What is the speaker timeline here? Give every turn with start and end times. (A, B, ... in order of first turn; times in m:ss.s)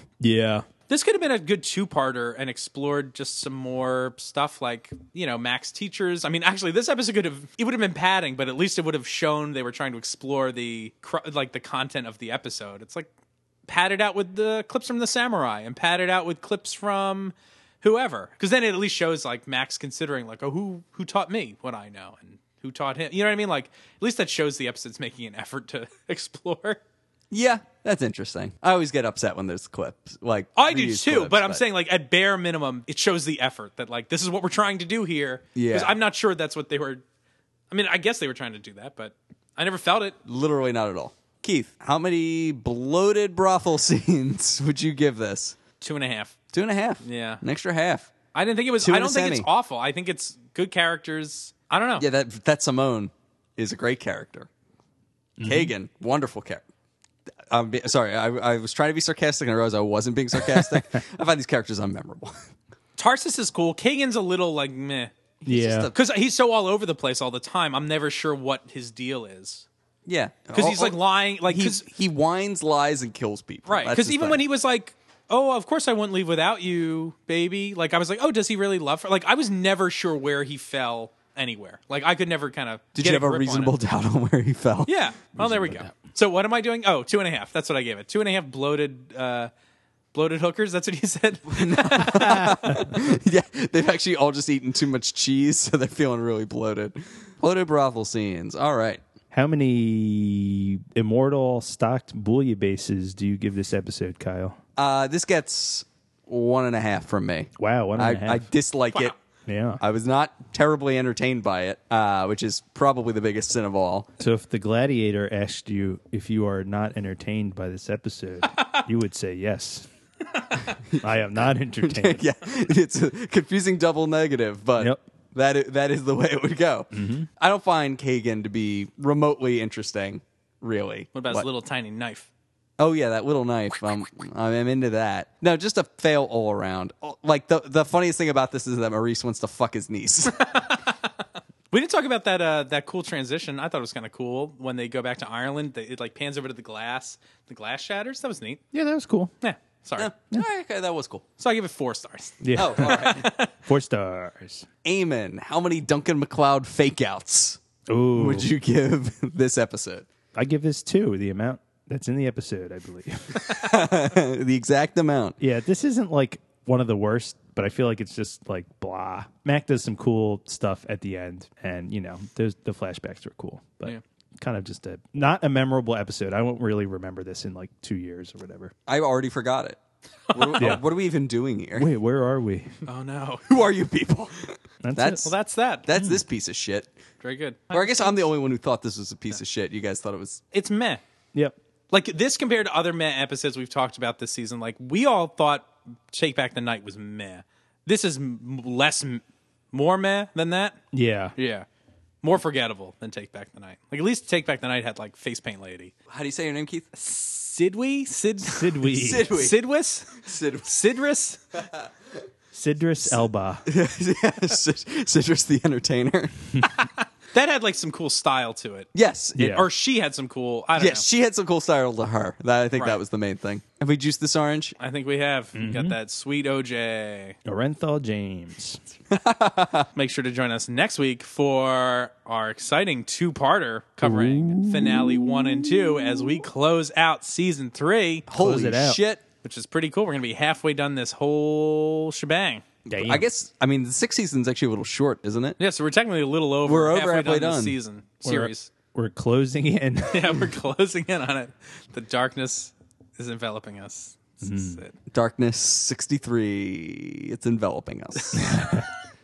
0:00.2-0:00.7 A
0:00.9-0:13.1 B
0:13.7-0:26.8 B
0:27.3-0:31.6 C
0:30.6-0:37.0 B
0:35.6-0:36.0 C
0:37.7-0:40.2 B
0:40.3-0:45.6 C
0:45.8-0:46.4 B
0:46.5-0:48.1 C
0:47.0-0:47.4 B
0:48.3-0:52.1 B
0:48.8-0:49.5 C
0:52.0-0:54.5 C
0:55.4-0:55.7 A
0:55.4-0:56.6 C
0:57.5-1:02.5 C
1:03.0-1:05.1 B
1:05.4-1:06.0 C
1:05.5-1:05.9 A
1:05.9-1:09.7 B
1:10.1-1:14.4 C
1:10.5-1:11.9 B
1:13.7-1:23.8 B
1:23.0-1:25.0 C
1:24.9-1:29.5 B
1:25.4-1:25.9 A
1:30.1-1:32.9 B
1:31.5-1:39.0 C
1:39.3-1:44.6 A
1:44.8-1:49.1 C
1:47.6-1:48.5 A
1:49.5-1:49.8 A
1:49.8-1:54.1 C
1:54.2-1:59.9 A
1:58.5-1:58.8 B
2:00.7-2:01.1 C
2:00.9-2:02.3 A
2:01.8-2:11.5 C
2:06.9-2:07.3 A
2:11.1-2:12.3 B
2:12.8-2:20.4 C
2:20.3-2:20.9 B
2:21.7-2:28.6 B
2:28.7-2:29.3 A
2:29.4-2:30.1 B
2:30.0-2:31.2 C
2:31.4-2:33.5 B
2:32.4-2:34.7 A
2:32.6-2:33.3 C
2:34.8-2:37.6 C
2:37.9-2:38.5 A
2:38.1-2:40.1 C
2:40.4-2:43.6 A
2:43.4-2:45.4 C
2:45.4-2:58.7 A
2:58.9-2:59.8 C
3:00.3-3:00.7 B
3:00.3-3:01.9 C
3:00.6-3:00.8 A
3:01.8-3:02.8 A
3:02.8-3:03.5 B
3:03.5-3:05.3 C
3:04.8-3:05.3 A
3:05.2-3:05.9 B
3:05.9-3:06.9 C
3:06.0-3:06.2 A
3:07.2-3:08.2 B
3:07.7-3:10.4 C
3:10.5-3:11.0 B
3:11.9-3:20.8 B
3:20.9-3:21.3 A
3:21.4-3:21.7 B
3:22.2-3:25.9 B
3:26.1-3:26.9 C
3:26.9-3:31.6 B
3:28.4-3:29.3 A
3:28.9-3:30.7 C
3:32.5-3:33.6 A
3:33.7-3:36.6 C
3:37.3-3:38.9 B
3:38.9-3:39.6 C
3:39.4-3:39.7 A
3:39.5-3:41.0 B
3:40.8-3:44.8 C
3:44.8-3:47.4 B
3:45.6-3:46.0 A
3:47.5-3:48.8 A
3:49.1-3:49.9 C
3:50.0-3:58.3 B
3:54.0-3:56.0 A
3:58.3-3:59.2 C
3:58.3-3:59.0 A
3:59.4-4:02.6 B
4:02.9-4:03.2 A
4:02.9-4:05.6 C
4:05.6-4:08.7 B
4:06.7-4:07.8 C
4:08.2-4:10.5 A
4:10.1-4:15.0 B
4:14.4-4:14.8 A
4:15.1-4:18.5 C
4:18.4-4:18.9 A